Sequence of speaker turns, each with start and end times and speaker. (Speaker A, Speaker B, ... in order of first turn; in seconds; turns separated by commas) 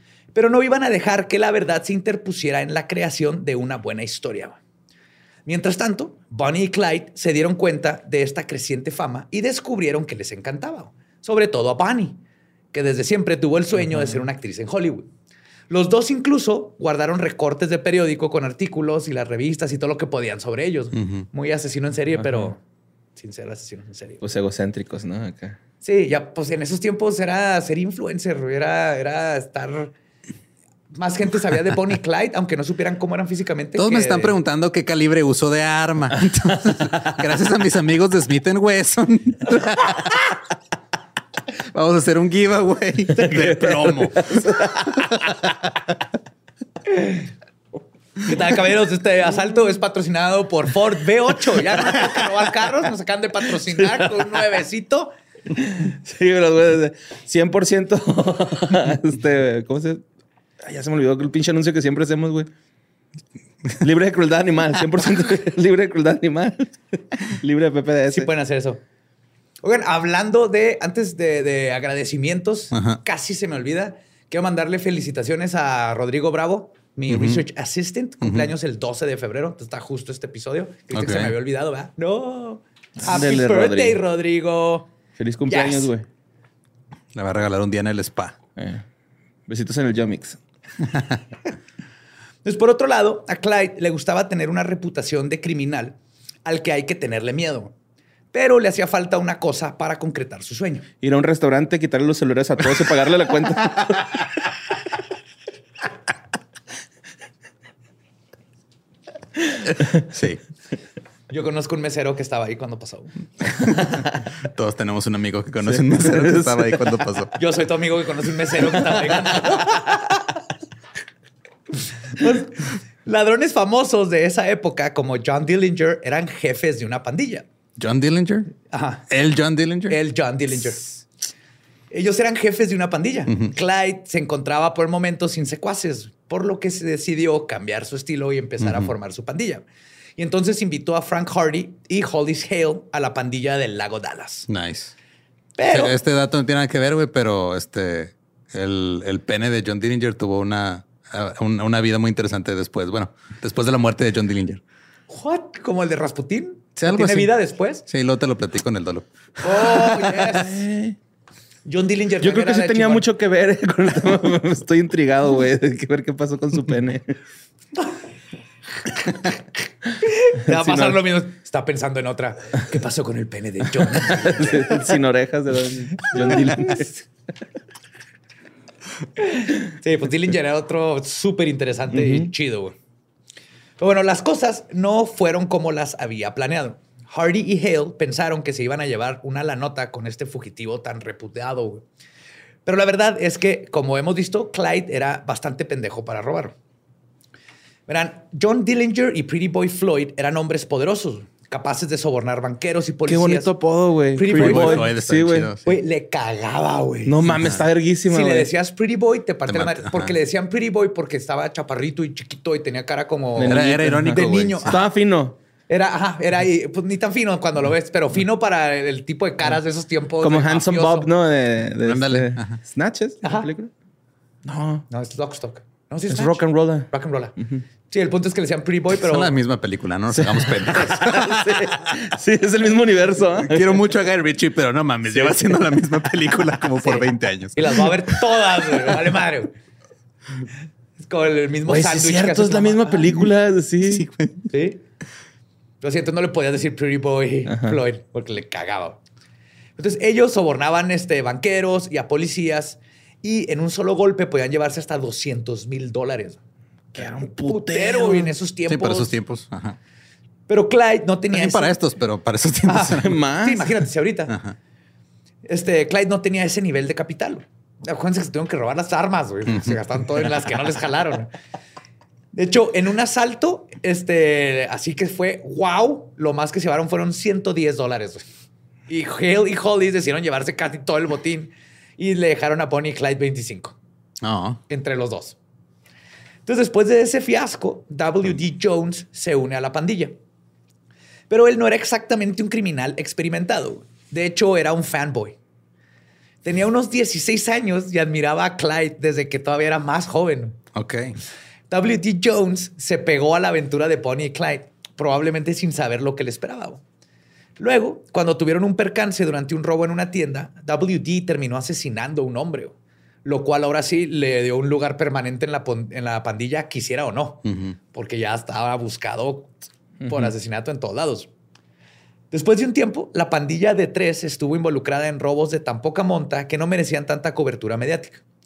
Speaker A: 0.3-4.6, Speaker A: 5.5-12.2, Speaker A: 12.7-15.1, Speaker B: 13.9-14.2, Speaker A: 15.7-22.6, Speaker B: 22.2-22.5, Speaker A: 23.1-24.2, Speaker B: 24.2-25.6, Speaker A: 25.8-29.9, Speaker A: 30.9-34.3, Speaker C: 33.8-40.4, Speaker C: 41.7-45.8, Speaker B: 43.2-45.1, Speaker A: 46.8-47.2, Speaker A: 48.2-55.1, Speaker B: 55.5-60.0, Speaker B: 60.6-62.5, Speaker B: 63.8-68.3, Speaker A: 68.1-68.8, Speaker A: 69.6-84.9, Speaker C: 72.7-73.0, Speaker C: 77.1-77.4, Speaker C: 78.2-78.5, Speaker C: 80.9-81.3, Speaker B: 83.0-84.0, Speaker B: 85.2-86.0, Speaker A: 85.5-85.9, Speaker C: 87.1-88.4, Speaker B: 88.6-88.8, Speaker B: 89.5-90.4, Speaker C: 90.8-91.2, Speaker A: 92.4-97.7, Speaker A: 98.3-100.9, Speaker B: 101.0-104.3, Speaker C: 109.9-110.4, Speaker A: 111.3-113.5, Speaker C: 113.6-117.3, Speaker B: 115.7-117.2, Speaker A: 117.3-120.3, Speaker A: 122.0-127.5, Speaker C: 127.8-128.5, Speaker A: 128.7-129.1, Speaker C: 129.1-130.0, Speaker A: 129.9-130.9, Speaker A: 131.9-139.6, Speaker C: 138.6-138.9, Speaker A: 140.2-144.5, Speaker C: 144.5-144.9, Speaker A: 145.6-145.9, Speaker C: 145.7-154.6, Speaker A: 155.1-157.8, Speaker C: 156.8-157.3, Speaker C: 157.9-160.2, Speaker A: 159.4-160.6, Speaker B: 160.3-161.0, Speaker A: 161.6-163.1, Speaker B: 162.2-167.2, Speaker A: 168.9-169.3, Speaker A: 170.0-174.8, Speaker B: 170.5-171.0, Speaker B: 173.9-176.9, Speaker A: 176.1-176.9, Speaker A: 179.2-182.7, Speaker B: 181.9-182.3, Speaker A: 183.8-191.8, Speaker A: 192.7-196.6, Speaker A: 197.9-203.5, Speaker B: 203.1-205.5, Speaker A: 204.2-204.9, Speaker C: 204.3-205.7, Speaker A: 205.6-207.3, Speaker B: 207.1-208.5, Speaker A: 208.1-214.8, Speaker C: 209.5-210.1, Speaker B: 213.3-215.3, Speaker C: 213.4-214.8, Speaker A: 215.7-221.1, Speaker B: 220.2-223.7, Speaker C: 221.8-222.6, Speaker A: 223.2-223.5, Speaker B: 224.4-224.8, Speaker A: 224.9-227.3, Speaker B: 226.1-226.9, Speaker A: 227.9-229.3, Speaker C: 229.0-232.0, Speaker B: 230.1-233.9, Speaker C: 233.4-238.2, Speaker A: 237.6-239.5, Speaker A: 241.0-243.3, Speaker B: 241.7-244.1, Speaker C: 243.8-244.5, Speaker A: 244.5-244.8, Speaker A: 245.8-249.0, Speaker B: 247.5-247.8, Speaker A: 249.8-256.4, Speaker A: 256.9-259.2, Speaker B: 256.9-258.4, Speaker C: 258.7-259.8, Speaker A: 260.5-261.7, Speaker C: 261.3-263.2, Speaker A: 262.7-264.4, Speaker B: 262.8-263.7, Speaker C: 264.3-264.6, Speaker A: 265.4-271.3, Speaker C: 269.5-269.8, Speaker A: 272.3-278.2, Speaker A: 278.9-283.8, Speaker C: 284.2-284.6, Speaker A: 284.7-285.4, Speaker A: 286.4-290.1, Speaker A: 291.3-295.4, Speaker A: 296.4-300.6, Speaker C: 300.7-301.1, Speaker A: 301.7-306.8, Speaker A: 307.6-319.5, Speaker C: 317.4-317.7, Speaker B: 320.0-320.3, Speaker A: 320.1-321.3, Speaker A: 322.3-328.2